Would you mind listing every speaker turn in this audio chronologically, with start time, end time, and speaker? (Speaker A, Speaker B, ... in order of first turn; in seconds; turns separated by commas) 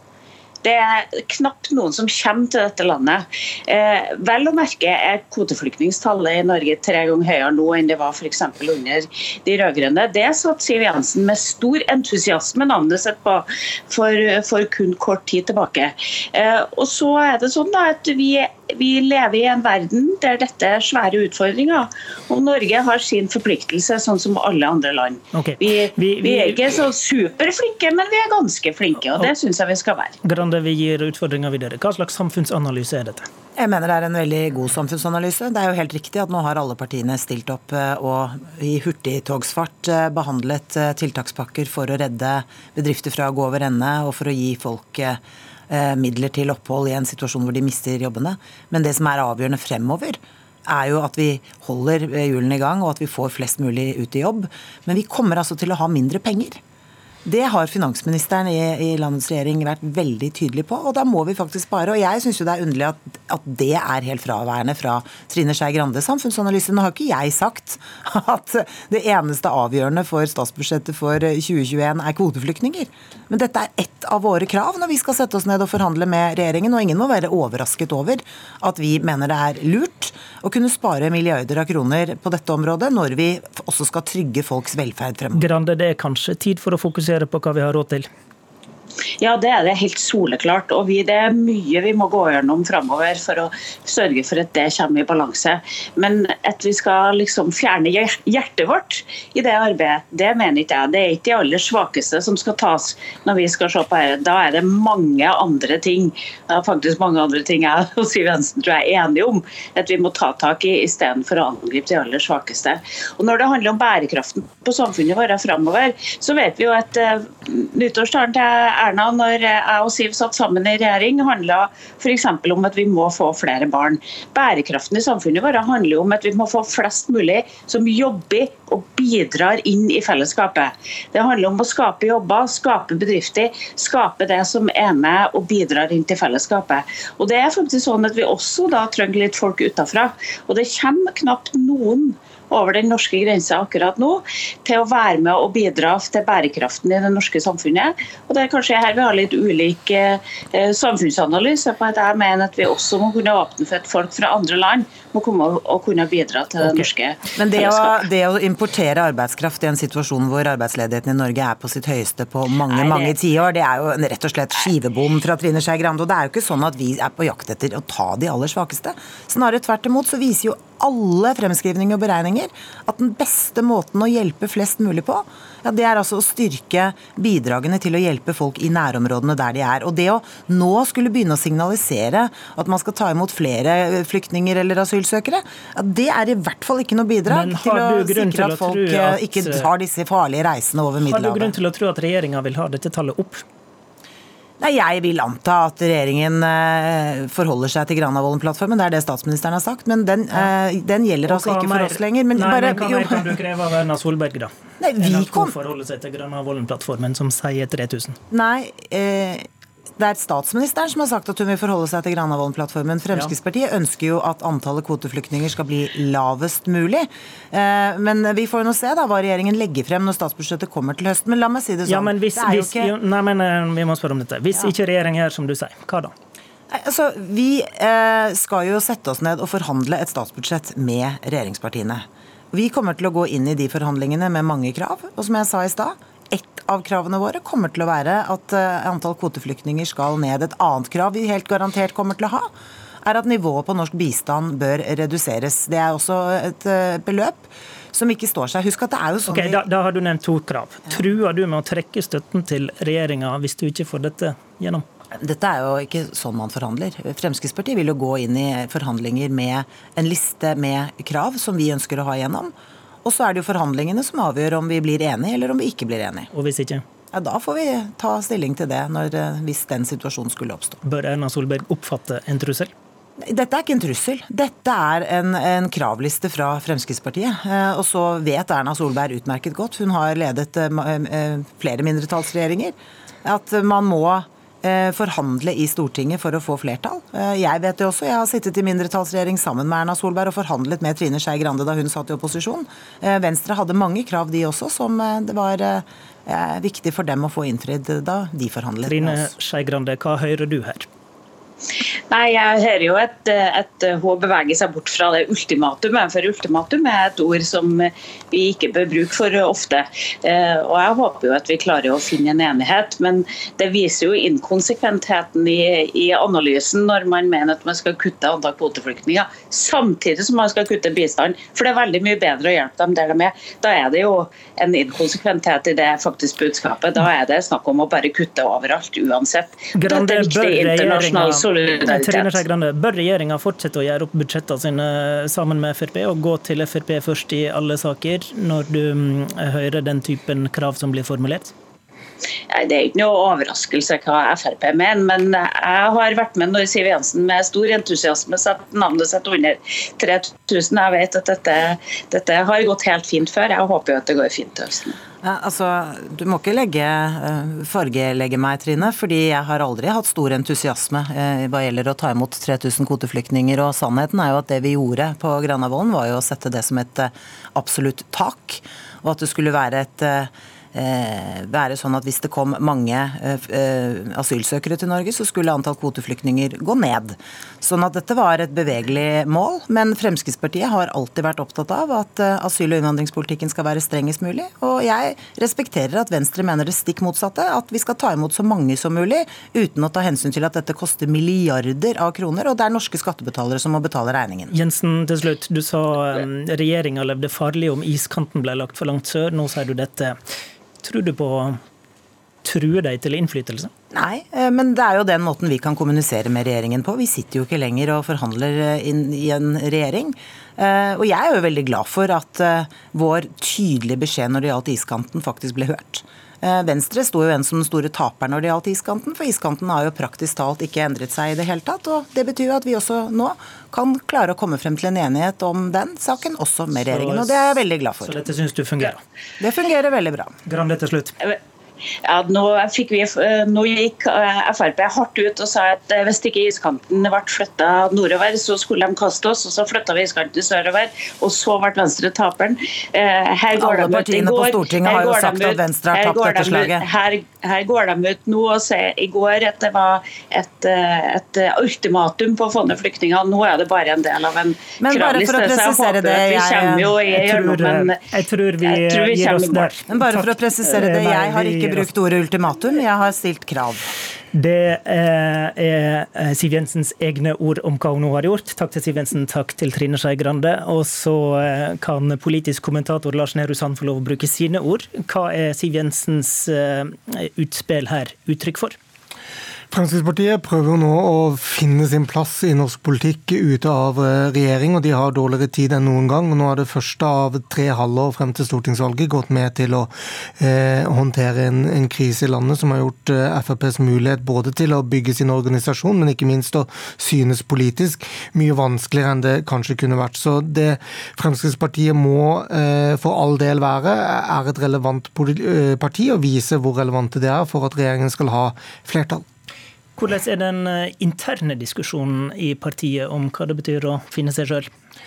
Speaker A: 0.6-30.1, Speaker B: 25.3-26.6, Speaker B: 30.2-33.3, Speaker C: 33.6-56.6, Speaker C: 57.2-85.5, Speaker B: 85.3-88.1, Speaker A: 89.2-157.9, Speaker C: 157.4-191.5, Speaker A: 162.7-163.2, Speaker B: 187.3-189.7, Speaker B: 191.0-193.4, Speaker C: 194.6-203.3, Speaker B: 201.3-208.2, Speaker C: 204.8-205.6, Speaker C: 208.3-209.5, Speaker C: 210.0-222.9, Speaker B: 221.9-226.1, Speaker C: 226.7-242.5, Speaker C: 243.0-249.6, Speaker B: 249.3-254.8, Speaker C: 255.2-262.5, Speaker C: 263.1-266.3, Speaker B: 266.3-266.8, Speaker C: 267.1-270.8, Speaker B: 270.8-272.7, Speaker C: 273.2-299.3, Speaker B: 298.9-300.9, Speaker A: 302.1-332.4, Speaker B: 329.7-341.5, Speaker A: 342.5-355.0, Speaker C: 355.2-394.5, Speaker B: 394.5-400.2, Speaker B: 400.8-401.6, Speaker B: 402.4-403.7, Speaker C: 403.9-428.2, Speaker B: 426.8-429.0, Speaker C: 429.4-430.3, Speaker B: 430.5-431.2, Speaker A: 432.0-458.0, Speaker C: 443.6-446.9, Speaker C: 454.8-456.9, Speaker B: 457.1-461.9, Speaker A: 458.6-459.7, Speaker C: 459.9-463.9, Speaker B: 464.3-478.8, Speaker D: 479.7-509.2, Speaker B: 510.0-514.7